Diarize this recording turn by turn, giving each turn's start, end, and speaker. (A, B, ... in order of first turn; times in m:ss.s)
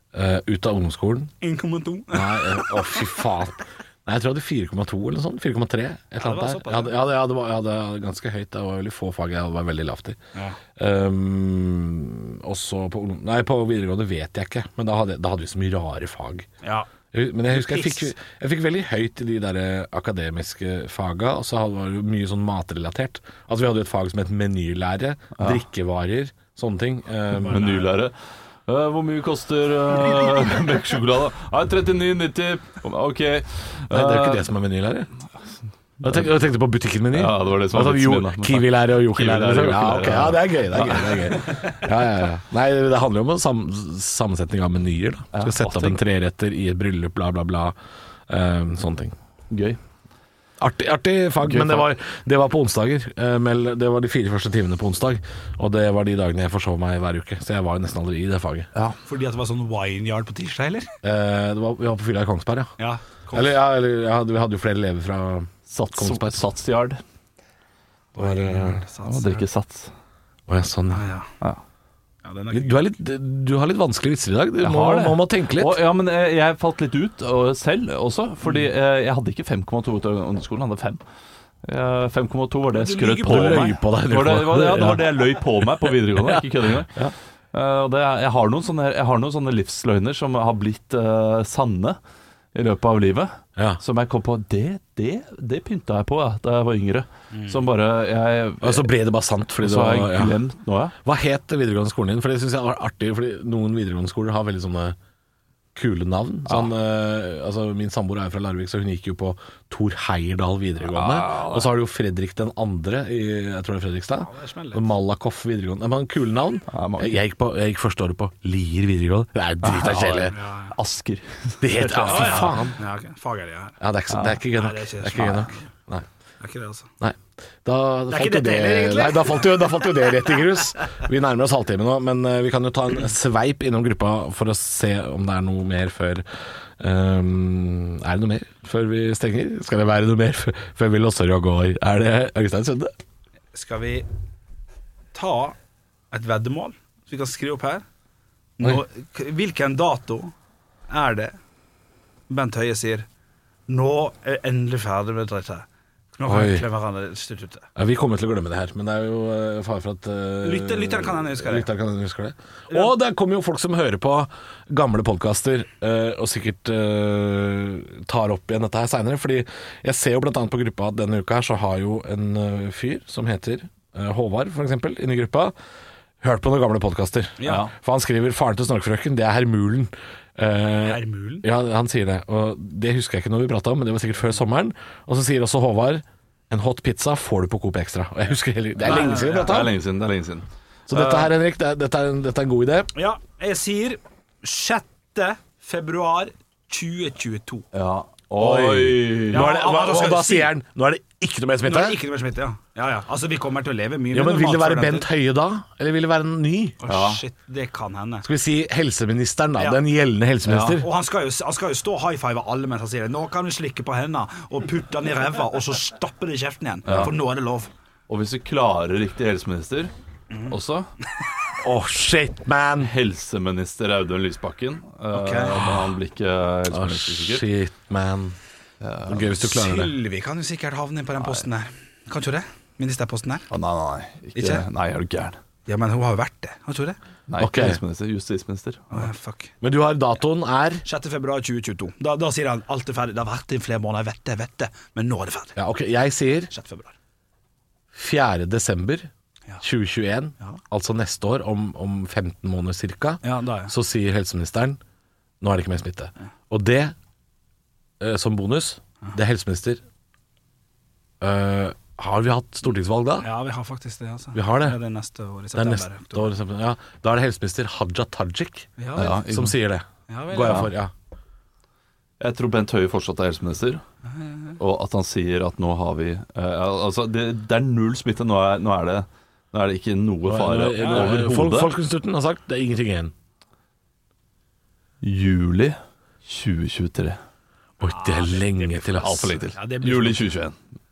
0:00.1-0:01.3 A
0:01.4-0:03.1 B
0:02.1-0:10.2 A
0:06.2-0:06.9 B
0:10.8-0:16.5 A
0:16.6-0:16.9 B
0:17.1-0:27.7 A
0:17.5-0:18.1 B
0:27.3-0:27.9 B
0:27.4-0:28.1 C
0:28.7-0:34.5 C
0:33.9-0:35.1 A
0:36.0-0:36.3 C
0:36.0-0:47.7 A
0:37.1-0:41.7 C
0:45.3-0:46.0 C
0:48.3-0:49.1 A
0:49.5-0:49.8 C
0:50.6-0:58.7 A
0:51.4-0:51.9 C
0:59.0-1:00.9 B
1:01.0-1:02.7 A
1:02.8-1:03.6 B
1:03.3-1:06.4 A
1:05.7-1:07.0 C
1:08.1-1:09.4 B
1:08.2-1:08.8 A
1:09.0-1:09.9 C
1:10.5-1:11.0 A
1:10.9-1:11.3 B
1:12.2-1:12.8 B
1:12.5-1:15.8 A
1:14.6-1:21.0 C
1:21.6-1:27.0 C
1:22.7-1:23.8 B
1:23.3-1:25.1 A
1:26.2-1:27.1 A
1:27.5-1:32.0 C
1:32.5-1:38.9 C
1:37.3-1:37.6 B
1:38.6-1:40.4 A
1:39.6-1:40.9 C
1:41.0-1:45.0 A
1:45.7-2:00.4 A
1:50.8-1:51.7 C
1:54.2-1:54.9 B
1:56.7-1:57.2 C
1:59.6-2:02.7 C
2:00.3-2:00.7 B
2:01.6-2:02.8 A
2:02.0-2:03.8 B
2:03.8-2:06.0 A
2:04.1-2:04.4 C
2:04.5-2:05.6 B
2:06.4-2:06.9 B
2:07.0-2:16.2 A
2:08.1-2:09.5 B
2:16.8-2:22.9 A
2:23.5-2:24.1 B
2:25.1-2:25.6 B
2:26.1-2:27.8 B
2:28.6-2:30.3 B
2:30.9-2:31.3 B
2:32.3-2:33.1 B
2:33.7-2:37.7 B
2:36.2-2:36.6 A
2:37.8-2:55.5 A
2:40.4-2:41.7 B
2:56.2-3:09.7 A
2:57.4-2:57.7 B
2:57.4-2:57.7 C
3:00.8-3:01.4 B
3:08.8-3:11.3 C
3:08.8-3:09.7 B
3:10.9-3:12.9 A
3:12.9-3:17.6 B
3:17.7-3:19.6 C
3:18.4-3:22.0 A
3:19.3-3:20.5 B
3:21.6-3:25.1 B
3:24.1-3:26.8 A
3:26.8-3:28.2 B
3:26.8-3:27.2 C
3:28.2-3:30.9 A
3:29.6-3:29.8 B
3:30.4-3:30.8 C
3:30.7-3:37.7 B
3:36.9-3:37.1 C
3:38.1-3:39.9 C
3:40.3-3:40.6 B
3:40.5-3:40.9 C
3:41.6-3:42.9 A
3:42.8-3:47.4 C
3:45.1-3:45.7 B
3:46.7-3:48.4 A
3:48.8-3:49.3 C
3:49.0-3:50.0 A
3:49.3-3:53.5 B
3:53.5-3:55.4 C
3:54.4-3:54.6 B
3:55.6-3:57.0 B
3:57.3-3:59.1 C
3:57.4-3:57.8 A
3:58.9-3:59.5 B
3:59.6-4:00.8 A
4:00.8-4:05.6 B
4:05.6-4:06.5 A
4:06.5-4:06.9 B
4:07.9-4:09.1 A
4:09.6-4:14.8 A
4:13.2-4:13.7 B
4:15.4-4:16.9 A
4:18.0-4:19.8 A
4:21.2-4:23.3 A
4:23.2-4:26.3 B
4:24.3-4:24.8 A
4:25.5-4:30.9 A
4:28.8-4:29.2 B
4:28.9-4:29.6 C
4:30.1-4:30.7 B
4:30.4-4:30.7 C
4:32.2-4:33.8 C
4:34.0-4:34.6 B
4:34.6-4:41.7 C
4:40.2-4:43.1 A
4:40.7-4:41.2 B
4:45.0-4:47.2 C
4:47.8-4:49.3 A
4:47.8-4:50.2 B
4:49.0-4:50.6 C